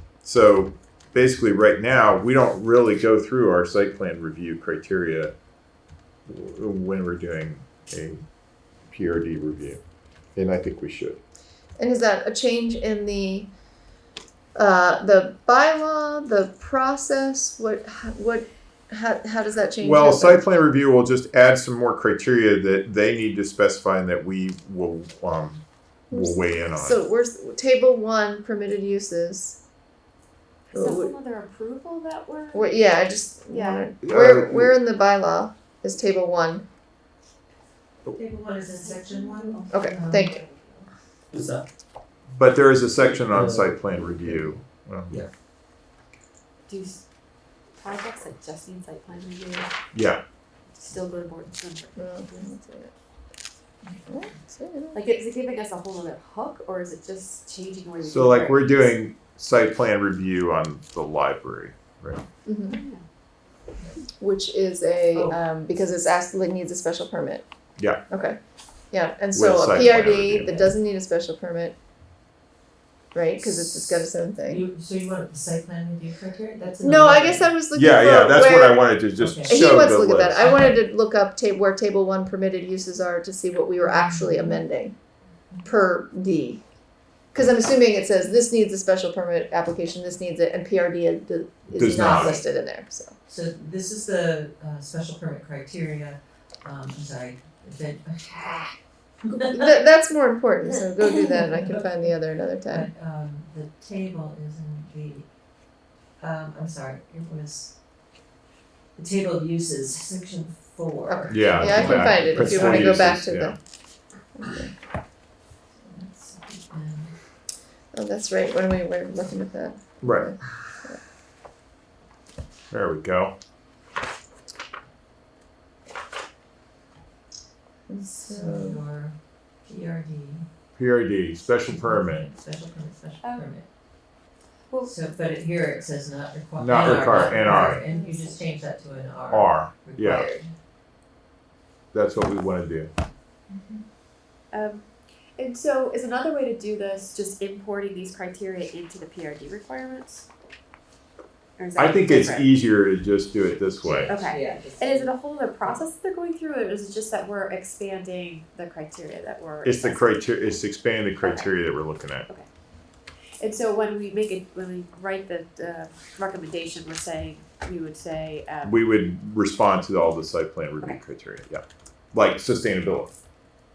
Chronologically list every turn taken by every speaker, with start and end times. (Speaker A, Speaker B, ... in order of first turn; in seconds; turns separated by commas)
Speaker A: 0.2-5.3, Speaker A: 6.2-8.2, Speaker A: 8.9-9.8, Speaker A: 10.3-11.2, Speaker B: 11.8-13.5, Speaker B: 14.5-20.6, Speaker A: 19.8-27.0, Speaker B: 26.1-29.6, Speaker C: 30.7-32.7, Speaker B: 30.7-31.1, Speaker B: 32.5-36.6, Speaker C: 33.5-33.9, Speaker A: 34.0-34.8, Speaker D: 38.0-40.6, Speaker C: 38.7-40.5, Speaker B: 39.7-40.4, Speaker D: 41.3-41.6, Speaker A: 42.3-45.2, Speaker D: 43.4-43.6, Speaker C: 46.7-47.0, Speaker C: 47.8-49.7, Speaker A: 49.9-50.2, Speaker C: 50.7-52.5, Speaker B: 52.0-52.9, Speaker B: 54.0-55.0, Speaker C: 54.9-58.9, Speaker A: 58.0-62.2, Speaker B: 62.5-62.8, Speaker C: 62.7-63.0, Speaker B: 64.2-67.4, Speaker B: 68.1-68.4, Speaker B: 68.9-71.8, Speaker A: 69.3-70.6, Speaker B: 73.1-74.6, Speaker A: 73.4-74.0, Speaker D: 74.4-77.5, Speaker B: 76.8-85.0, Speaker A: 77.7-80.5, Speaker D: 79.2-79.5, Speaker D: 80.4-80.8, Speaker D: 83.8-84.6, Speaker B: 85.6-86.6, Speaker B: 87.3-93.1, Speaker A: 91.8-92.3, Speaker D: 91.9-92.4, Speaker D: 93.2-99.7, Speaker B: 99.5-102.9, Speaker D: 101.0-101.8, Speaker D: 102.7-105.3, Speaker D: 106.2-107.7, Speaker D: 109.0-113.1, Speaker B: 111.1-113.6, Speaker A: 111.3-113.6, Speaker B: 114.3-114.7, Speaker D: 115.8-117.1, Speaker B: 117.9-121.0, Speaker A: 120.0-120.5, Speaker A: 122.7-123.3, Speaker B: 127.9-128.8, Speaker D: 128.2-129.1, Speaker D: 129.7-130.4, Speaker A: 130.8-132.3, Speaker D: 131.7-133.7, Speaker C: 133.2-133.5, Speaker D: 134.8-140.5, Speaker A: 136.6-137.8, Speaker C: 136.8-138.4, Speaker A: 139.3-140.3, Speaker A: 141.9-142.9, Speaker C: 144.5-144.8, Speaker C: 145.4-150.3, Speaker C: 151.6-152.5, Speaker A: 151.8-154.1, Speaker D: 153.8-155.8, Speaker C: 154.1-160.6, Speaker A: 159.6-162.3, Speaker C: 161.2-161.5, Speaker C: 163.4-168.7, Speaker A: 168.6-173.1